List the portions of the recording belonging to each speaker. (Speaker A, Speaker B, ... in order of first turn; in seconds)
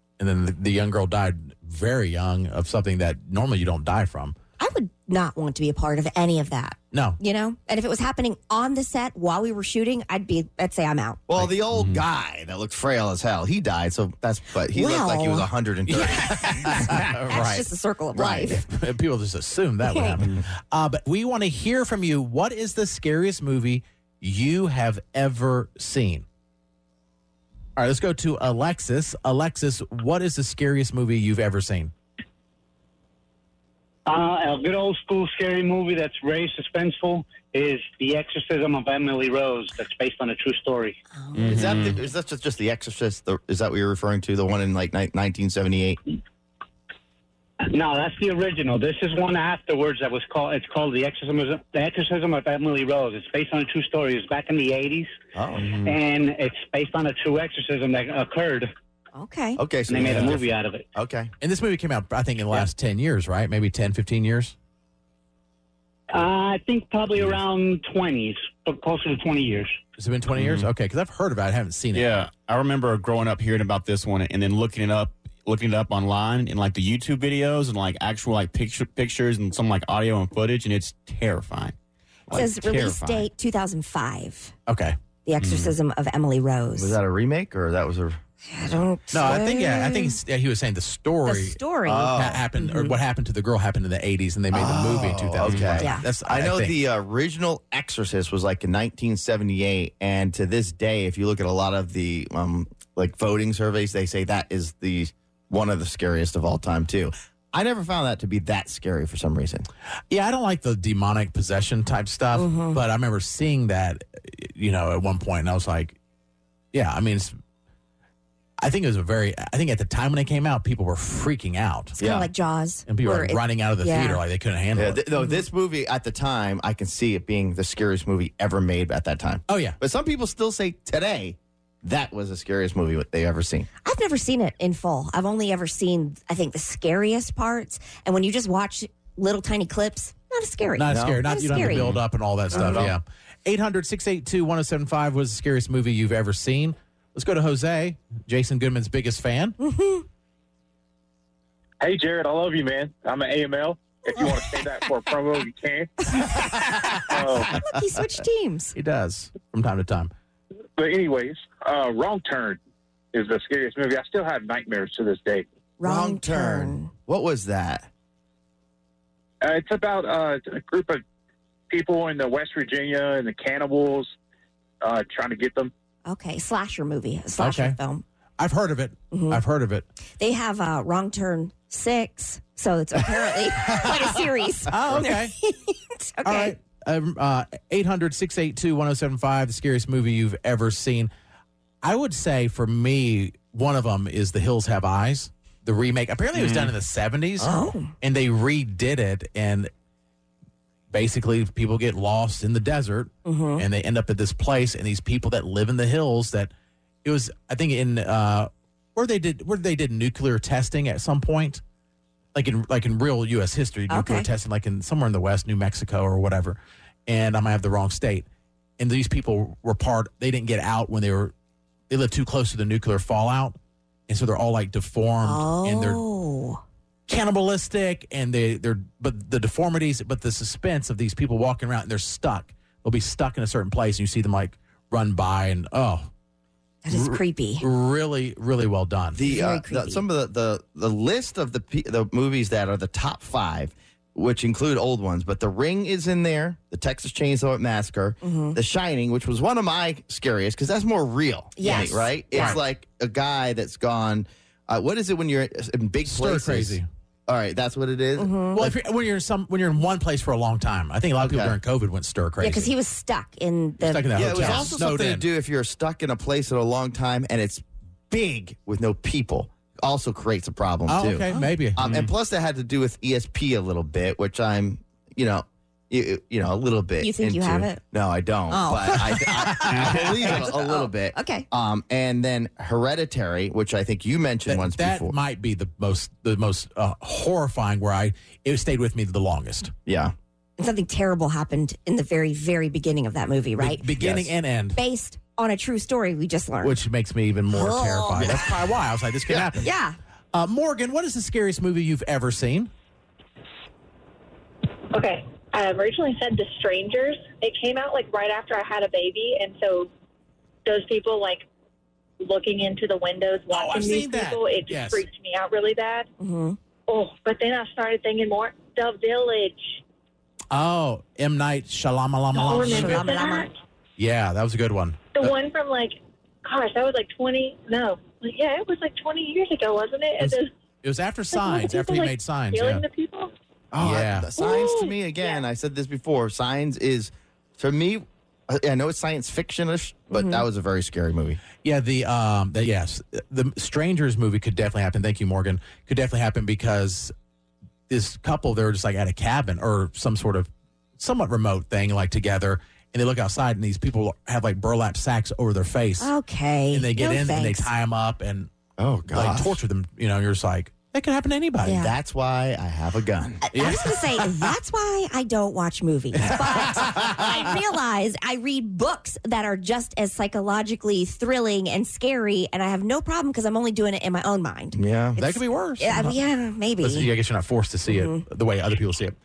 Speaker A: 0.2-4.3, 6.9-7.2, 15.9-26.2, 27.8-31.9, 60.1-60.3, 61.4-64.5, 70.0-72.1, 84.7-85.0, 89.1-96.8, 110.1-116.0, 116.7-117.3, 118.6-122.0, 122.9-125.0, 129.5-129.8, 140.8-149.6, 158.7-160.1, 177.4-177.8, 178.4-179.8, 184.7-185.3, 186.2-191.1, 191.8-199.7, 200.9-206.5, 207.0-211.6, 212.3-218.2, 218.8-221.3, 221.9-223.6, 224.1-226.0, 227.1-236.1, 236.9-239.2, 251.6-252.6, 256.1-256.9, 258.5-262.7, 263.8-265.2, 270.9-271.8, 284.5-289.7, 293.6-294.8, 296.6-299.7, 300.3-302.7, 313.5-315.1, 320.5-323.1, 324.0-325.3, 330.2-332.8, 333.8-334.3, 341.6-347.1, 347.9-356.1, 356.7-358.5, 359.1-361.9, 363.5-364.2, 366.3-367.0, 375.2-376.2, 376.8-379.1
Speaker B: 4.6-11.2, 14.7-15.5, 16.2-18.6, 19.8-20.2, 41.2-41.5, 59.1-59.6, 82.3-84.5, 85.2-87.0, 88.5-90.2, 91.2-92.9, 95.8-96.0, 112.3-112.8, 122.0-124.2, 133.8-141.9, 149.6-150.0, 156.2-156.7, 157.5-158.7, 165.8-166.9, 176.1-178.0, 179.1-179.4, 180.2-186.5, 197.4-197.9, 203.2-203.6, 213.9-214.2, 225.2-226.6, 236.8-237.6, 239.2-240.0, 248.2-248.6, 251.6-252.6, 258.2-258.6, 262.4-264.8, 277.0-277.8, 278.5-281.4, 290.6-293.8, 294.7-296.8, 297.5-298.5, 299.6-300.0, 316.2-316.6, 322.4-323.5, 340.1-340.4, 356.0-357.7, 361.6-361.9, 363.4-377.1, 377.9-378.2
Speaker C: 11.3-17.0, 41.5-46.0, 55.3-55.7, 59.6-60.4, 60.9-61.3, 82.8-83.2, 86.7-88.2, 91.8-92.4, 94.5-109.7, 122.0-122.3, 124.8-133.7, 140.9-141.9, 142.5-142.9, 165.8-167.9, 239.1-258.8, 261.2-261.6, 264.1-285.1, 289.9-290.1, 294.0-294.3, 333.7-341.4, 358.8-359.6, 361.8-363.4, 366.6-367.2, 374.7-375.2
Speaker D: 11.7-12.0, 41.3-42.0, 55.6-56.0, 70.3-70.7, 71.9-81.8, 82.3-83.1, 85.4-85.7, 95.4-95.8, 196.3-196.7, 271.8-272.1, 279.7-280.2
Speaker E: 34.0-41.0, 47.6-55.1, 55.8-58.7, 59.8-60.9, 66.1-69.8
Speaker F: 151.8-156.4, 156.9-157.5, 160.8-162.6, 163.1-165.4, 169.4-171.0, 171.7-174.1, 174.8-175.7
Speaker G: 304.9-309.9, 310.6-311.4, 312.2-316.1, 316.9-319.8, 322.4-323.5, 325.1-330.5, 331.3-333.3, 334.4-334.9